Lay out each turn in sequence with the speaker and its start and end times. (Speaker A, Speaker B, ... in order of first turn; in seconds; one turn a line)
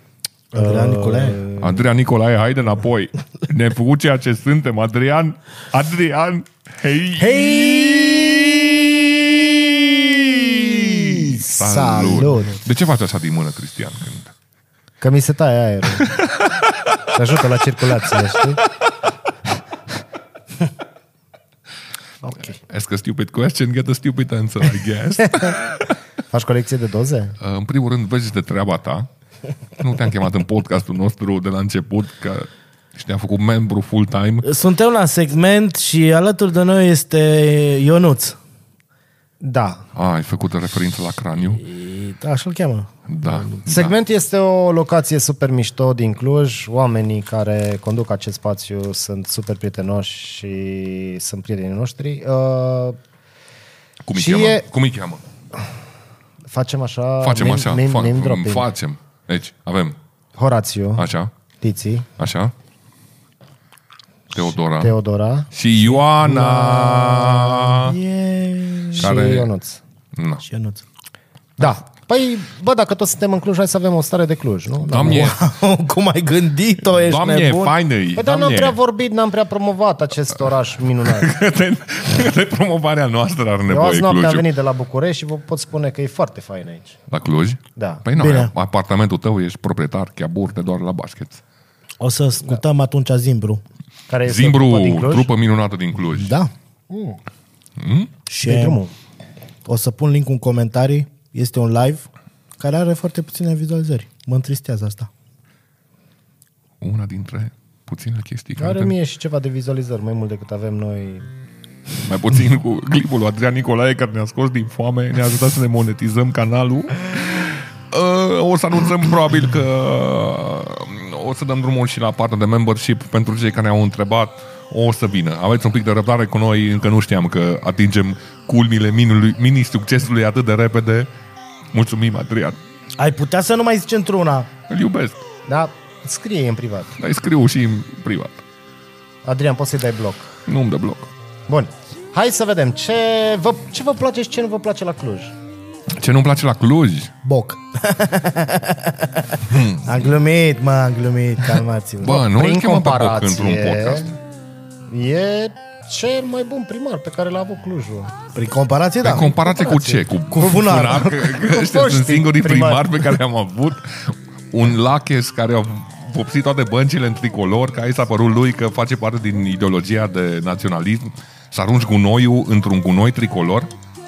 Speaker A: 0.5-1.5
Speaker B: 0.6-1.8
Speaker C: 1.6-8.3
Speaker B: 7.2-8.4
Speaker C: 10.1-14.3
Speaker A: 11.0-12.6
Speaker B: 15.0-16.1
Speaker C: 16.0-17.0
Speaker B: 17.1-18.6
Speaker C: 22.6-26.0
Speaker B: 26.3-27.4
Speaker C: 27.4-29.1
Speaker C: 29.8-34.5
Speaker A: 34.4-38.4
Speaker B: 39.4-39.8
Speaker C: 40.0-41.6
Speaker A: 41.6-43.4
Speaker C: 43.1-44.0
Speaker B: 43.7-53.0
Speaker C: 54.0-55.2
Speaker B: 54.1-54.6
Speaker B: 56.5-58.7
Speaker C: 57.2-60.0
Speaker B: 60.4-61.1
Speaker C: 61.0-61.3
Speaker B: 61.6-62.1
Speaker C: 62.2-62.5
Speaker C: 64.3-64.9
Speaker B: 64.8-65.5
Speaker C: 65.5-68.0
Speaker A: 66.3-69.1
Speaker B: 69.0-69.8
Speaker C: 69.0-69.5
Speaker C: 70.1-70.4
Speaker A: 70.5-70.8
Speaker B: 71.6-75.4
Speaker C: 74.9-75.4
Speaker A: 75.0-77.7
Speaker C: 77.0-78.8
Speaker B: 78.2-81.3
Speaker C: 81.0-84.5
Speaker B: 83.7-87.0
Speaker C: 87.1-91.4
Speaker B: 87.8-88.0
Speaker A: 88.2-88.5
Speaker A: 92.0-93.6
Speaker B: 94.1-95.3
Speaker C: 94.2-96.4
Speaker A: 96.1-96.5
Speaker B: 96.9-97.2
Speaker C: 97.8-98.1
Speaker A: 98.3-98.8
Speaker B: 98.4-98.9
Speaker A: 99.7-102.1
Speaker A: 102.6-105.1
Speaker C: 106.8-109.0
Speaker B: 108.6-111.3
Speaker C: 112.0-131.1
Speaker C: 131.7-132.6
Speaker A: 133.0-134.5
Speaker C: 134.7-135.2
Speaker B: 135.5-136.9
Speaker C: 137.0-138.4
Speaker B: 139.2-140.3
Speaker C: 140.5-141.1
Speaker B: 141.5-145.3
Speaker C: 145.9-147.1
Speaker A: 147.2-152.2
Speaker C: 149.5-150.2
Speaker C: 152.0-154.1
Speaker B: 152.1-154.1
Speaker B: 154.9-158.1
Speaker A: 158.3-161.3
Speaker C: 159.0-173.7
Speaker B: 161.1-163.2